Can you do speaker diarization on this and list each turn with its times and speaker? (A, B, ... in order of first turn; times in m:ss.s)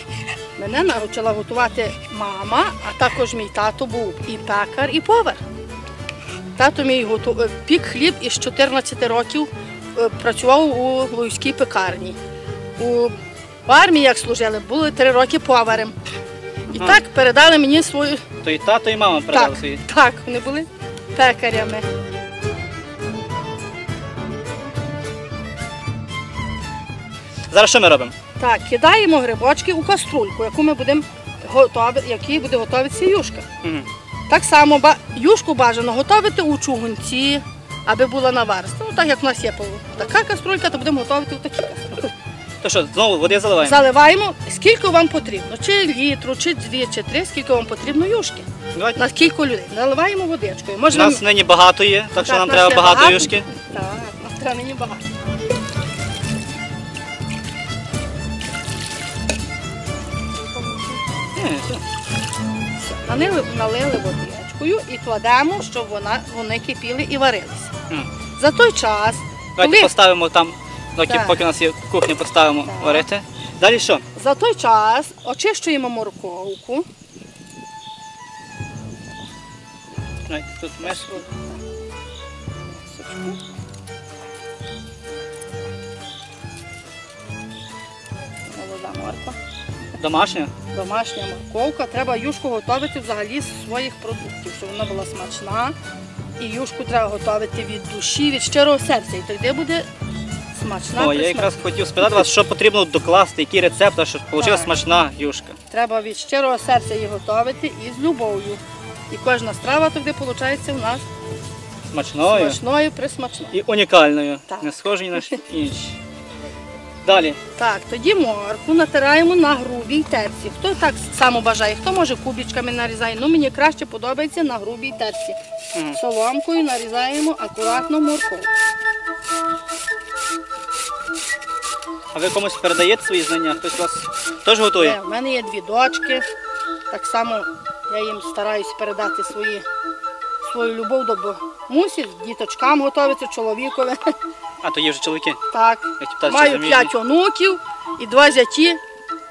0:00.6-0:05.4 A
0:06.6-0:12.2 A
0:12.8-0:13.2 A
0:13.7-0:16.0 A
0:16.7-0:18.2 A
0:18.4-0:19.8 B
0:19.3-0:21.8 A
0:27.5-0:28.1 B
0:28.4-0:33.5 A
0:34.3-0:42.1 A
0:42.6-0:43.8 B
0:43.6-0:51.2 A
0:50.9-0:53.5 B
0:52.2-0:55.0 A
1:00.6-1:01.0 A
1:01.4-1:01.8 B
1:02.8-1:07.7 A
1:08.4-1:09.9 A
1:09.6-1:14.0 B
1:11.1-1:11.4 A
1:12.7-1:13.1 A
1:14.2-1:16.9 A
1:20.3-1:21.1 B
1:20.8-1:21.6 A
1:22.8-1:23.4 A
1:28.5-1:29.4 A
1:30.0-1:30.5 B
1:30.7-1:35.8 A
1:36.4-1:39.9 A
1:40.5-1:41.5 A
1:41.0-1:45.6 B
1:44.4-1:44.8 A
1:45.7-1:51.0 A
1:51.9-1:52.6 B
1:52.2-1:53.5 A
1:53.5-1:56.0 B
1:57.0-1:57.4 B
1:57.6-2:05.4 A
2:05.9-2:08.5 A
2:12.1-2:15.0 B
2:14.8-2:16.3 A
2:16.9-2:19.7 A
2:20.4-2:24.1 A
2:24.6-2:25.4 B
2:25.5-2:28.8 A
2:26.0-2:26.9 B